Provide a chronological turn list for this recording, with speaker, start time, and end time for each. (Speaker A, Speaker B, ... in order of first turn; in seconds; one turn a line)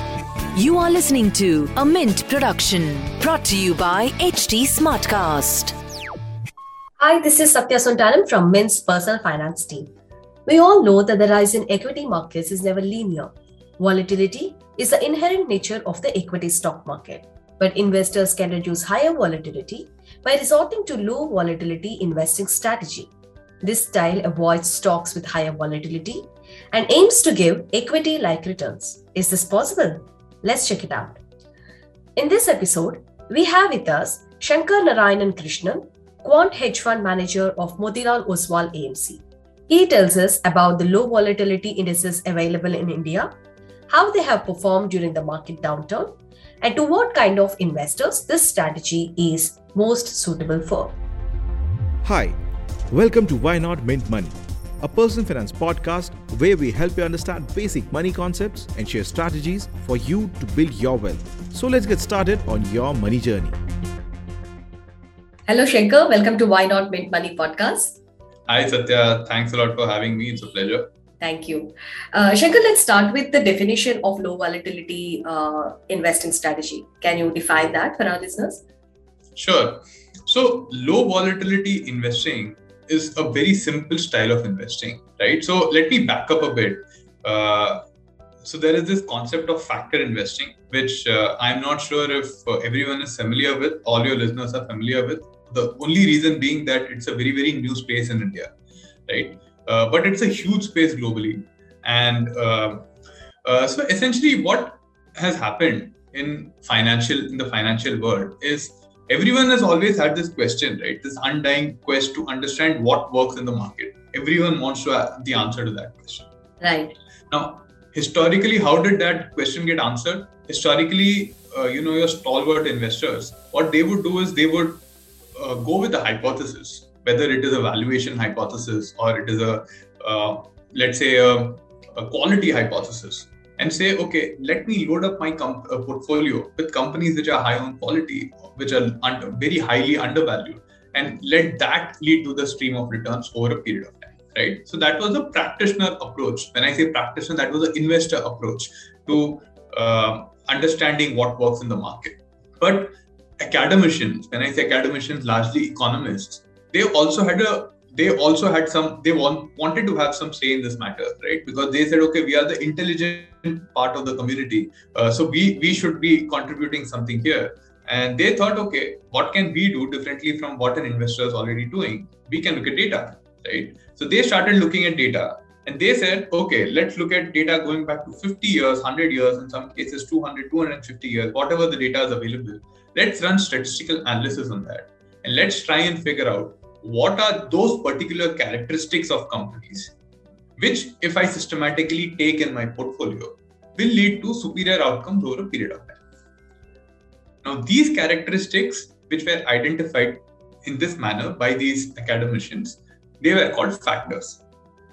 Speaker A: 0.6-5.8
Speaker B: 7.0-9.9
Speaker B: 10.5-23.1
Speaker B: 23.6-31.2
Speaker B: 32.2-43.3
Speaker B: 43.9-51.0
Speaker C: 52.0-52.4
Speaker C: 52.9-63.6
Speaker B: 65.5-68.0
Speaker D: 68.5-70.9
Speaker B: 71.2-78.6
Speaker D: 79.4-87.8
Speaker D: 88.4-98.5
Speaker D: 99.1-102.9
Speaker D: 103.5-116.3
Speaker B: 116.6-117.0
Speaker D: 117.3-124.8
Speaker D: 125.4-189.9
Speaker D: 190.6-196.0
Speaker D: 197.4-204.4